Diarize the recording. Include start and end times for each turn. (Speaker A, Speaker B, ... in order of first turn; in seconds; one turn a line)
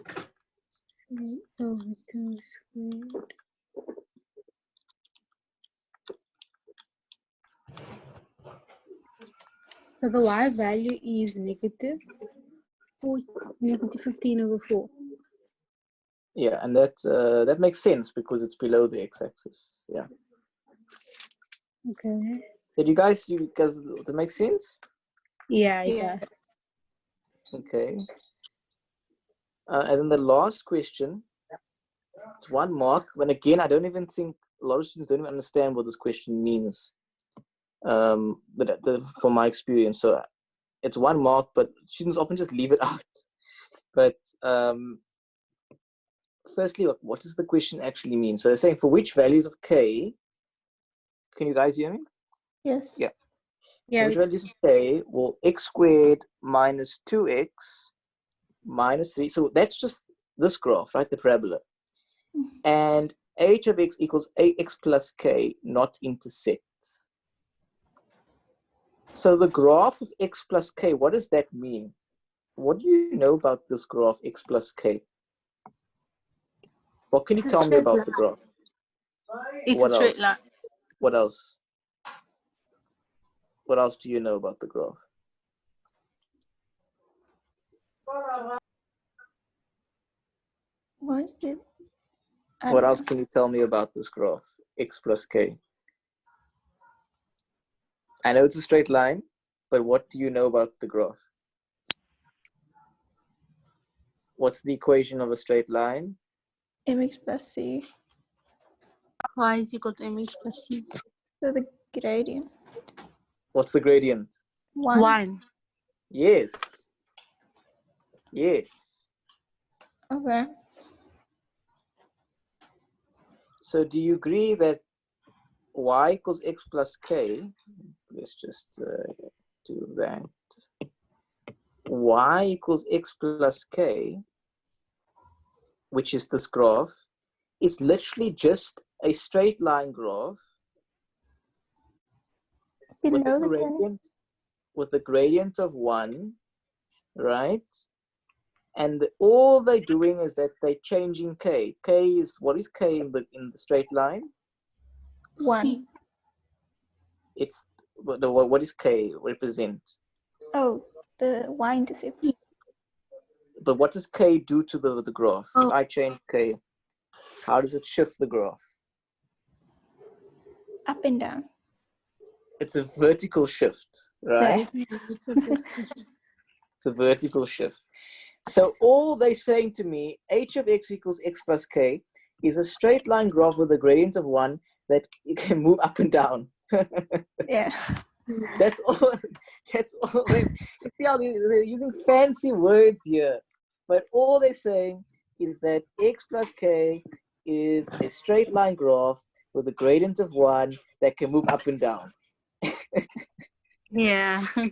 Speaker A: 1.1-3.2
Speaker A: 10.0-12.2
Speaker A: 13.0-14.9
Speaker B: 16.4-20.1
Speaker A: 21.9-22.4
Speaker B: 22.8-24.8
Speaker A: 25.5-26.3
Speaker C: 25.9-26.2
Speaker B: 27.5-28.0
Speaker B: 29.7-31.2
Speaker B: 32.4-36.9
Speaker B: 37.8-40.2
Speaker B: 40.8-43.2
Speaker B: 43.9-45.0
Speaker B: 46.5-50.2
Speaker B: 51.3-52.0
Speaker C: 52.6-53.1
Speaker A: 53.9-54.2
Speaker B: 54.0-57.9
Speaker B: 58.7-61.6
Speaker B: 62.6-67.0
Speaker B: 69.1-71.9
Speaker B: 72.6-75.0
Speaker B: 77.1-78.4
Speaker A: 77.4-78.2
Speaker A: 79.7-80.4
Speaker B: 79.7-80.2
Speaker B: 81.0-81.6
Speaker B: 83.7-85.0
Speaker C: 91.0-91.6
Speaker C: 92.6-93.0
Speaker B: 92.7-95.6
Speaker B: 98.2-101.2
Speaker B: 104.4-106.2
Speaker C: 106.9-107.9
Speaker A: 109.3-110.8
Speaker C: 111.4-112.5
Speaker B: 113.5-114.3
Speaker C: 114.8-115.2
Speaker A: 114.9-115.4
Speaker B: 116.1-116.9
Speaker B: 118.3-119.0
Speaker C: 120.1-120.5
Speaker B: 123.6-124.8
Speaker B: 125.8-127.5
Speaker B: 128.1-129.1
Speaker B: 129.7-130.4
Speaker B: 131.9-134.2
Speaker B: 135.9-137.0
Speaker B: 137.6-140.4
Speaker C: 143.0-143.8
Speaker B: 143.1-144.1
Speaker B: 144.8-146.4
Speaker B: 147.2-147.7
Speaker B: 148.8-154.3
Speaker C: 155.4-155.8
Speaker A: 155.4-155.8
Speaker B: 157.3-159.9
Speaker C: 160.6-162.2
Speaker B: 163.6-166.6
Speaker B: 167.4-168.6
Speaker C: 170.9-171.4
Speaker B: 172.6-174.7
Speaker C: 174.4-174.7
Speaker A: 174.8-175.9
Speaker B: 176.8-177.8
Speaker B: 178.4-187.2
Speaker C: 187.4-187.8
Speaker B: 188.5-202.1
Speaker A: 203.9-204.4